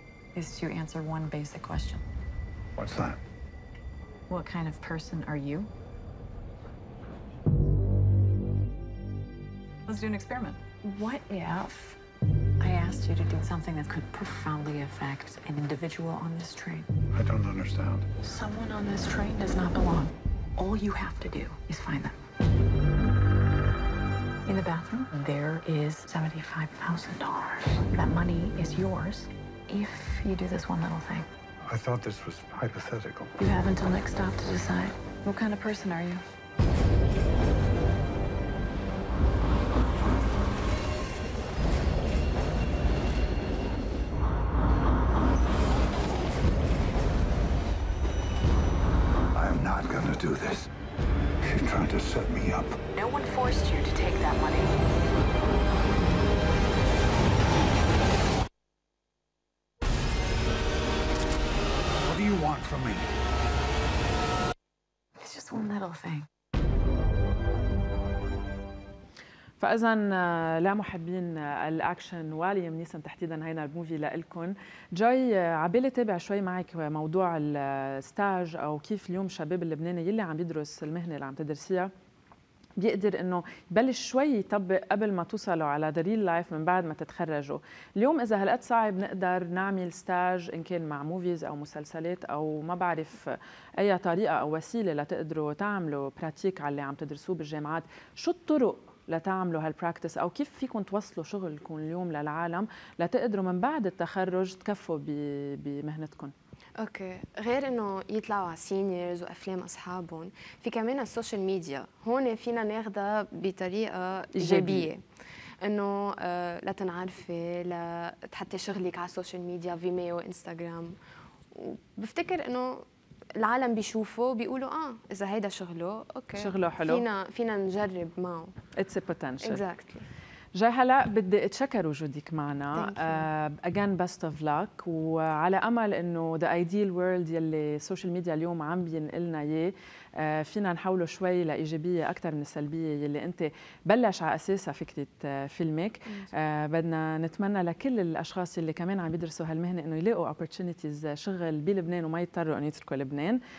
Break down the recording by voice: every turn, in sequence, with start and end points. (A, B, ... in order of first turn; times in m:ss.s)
0:00.4-0:02.0 A
0:02.8-0:03.2 B
0:04.3-0:05.7 A
0:09.9-0:12.0 A
0:12.6-0:16.9 A
0:17.1-0:18.1 B
0:18.2-0:22.1 A
0:24.5-0:31.3 A
0:31.6-0:33.3 B
0:33.4-0:36.2 A
0:49.3-0:50.7 B
0:51.4-0:52.8 B
0:52.9-0:54.8 A
1:02.0-1:03.1 B
1:05.2-1:06.3 A
1:09.6-1:21.9 C
1:22.8-1:46.3 C
1:46.8-1:55.0 D
1:54.4-1:54.9 C
1:55.6-2:01.0 D
2:01.5-2:02.8 D
2:03.4-2:08.5 D
2:06.4-2:07.1 C
2:08.8-2:09.6 C
2:09.4-2:10.0 D
2:10.6-2:33.4 C
2:12.8-2:13.3 D